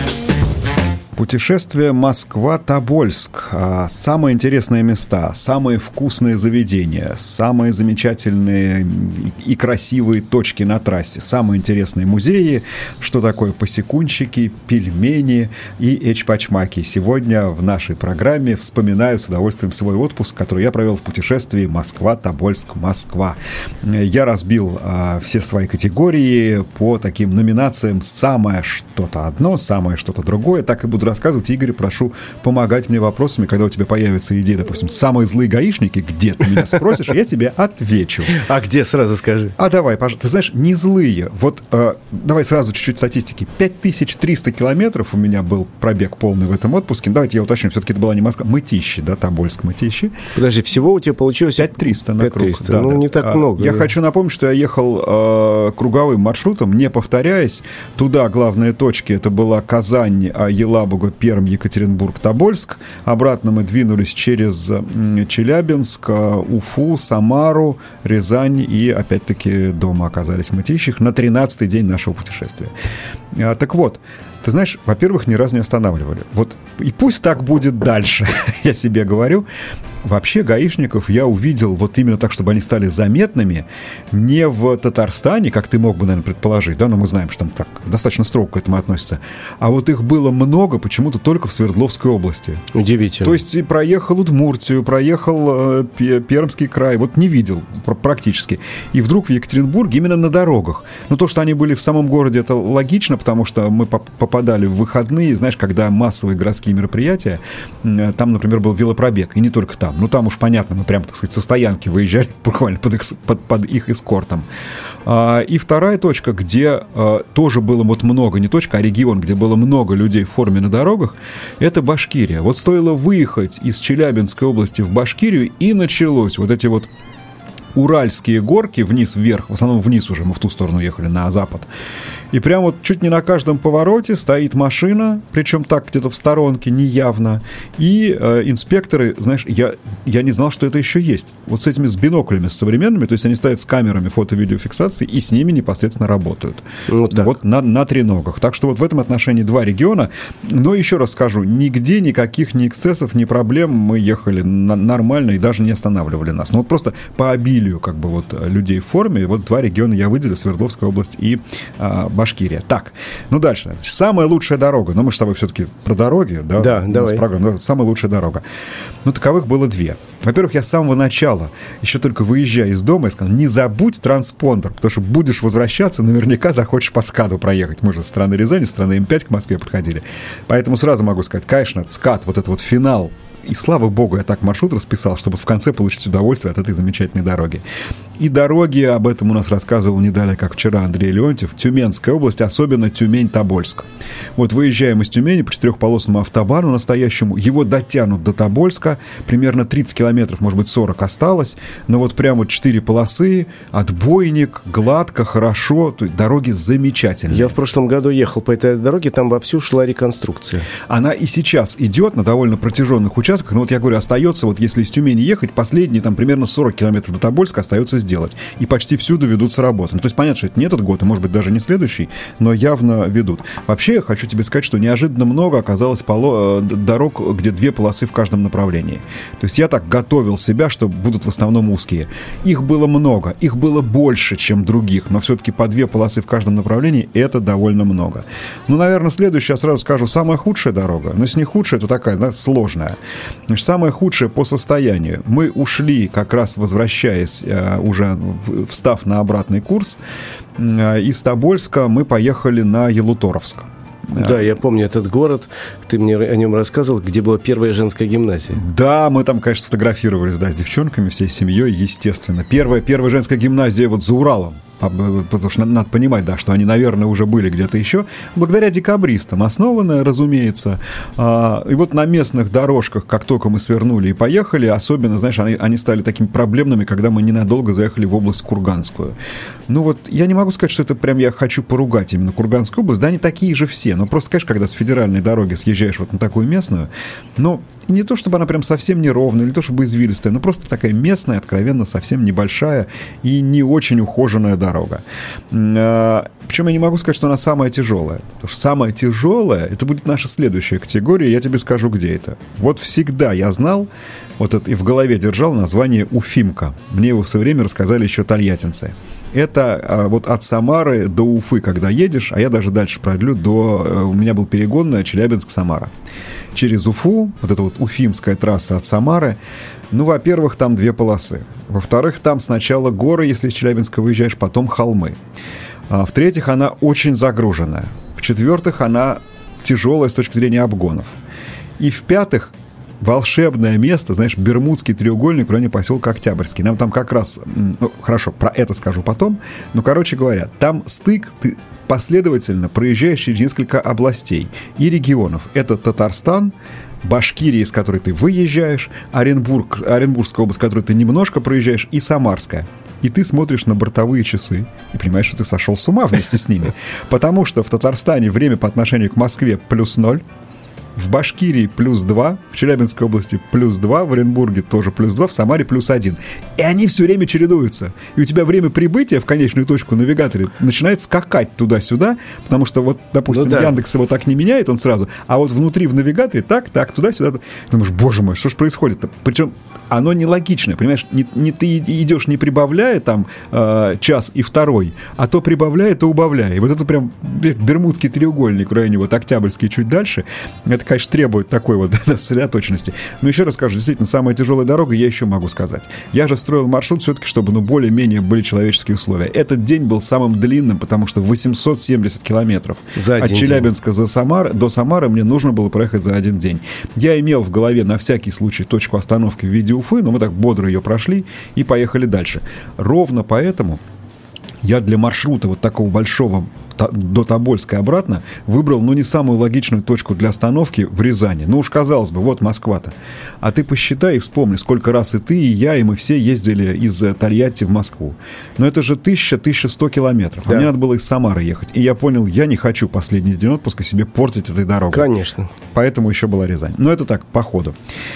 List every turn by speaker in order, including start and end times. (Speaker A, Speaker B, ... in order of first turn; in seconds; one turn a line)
Speaker A: 1.1-38.4
Speaker B: 38.3-39.5
Speaker A: 39.6-50.1
Speaker B: 50.3-53.9
Speaker A: 51.6-72.7
Speaker A: 73.3-79.5
Speaker A: 80.0-92.6
Speaker B: 92.7-93.4
Speaker A: 93.2-114.5
Speaker A: 115.0-126.9
Speaker A: 127.7-131.7
Speaker A: 132.3-168.4
Speaker B: 146.9-147.3
Speaker B: 166.6-167.2
Speaker A: 169.0-187.6
Speaker A: 188.2-207.5
Speaker B: 207.3-210.7
Speaker A: 210.9-243.0
Speaker A: 243.5-250.0
Speaker A: 250.6-254.3
Speaker B: 254.1-258.6
Speaker A: 258.5-279.1
Speaker A: 279.7-315.9
Speaker A: 316.5-319.4
Speaker A: 319.9-325.2
Speaker A: 325.9-331.1
Speaker A: 331.8-360.2
Speaker A: 360.9-413.8
Speaker B: 373.3-373.7
Speaker B: 402.9-403.7
Speaker A: 414.6-435.1
Speaker B: 434.9-435.5
Speaker A: 435.7-437.7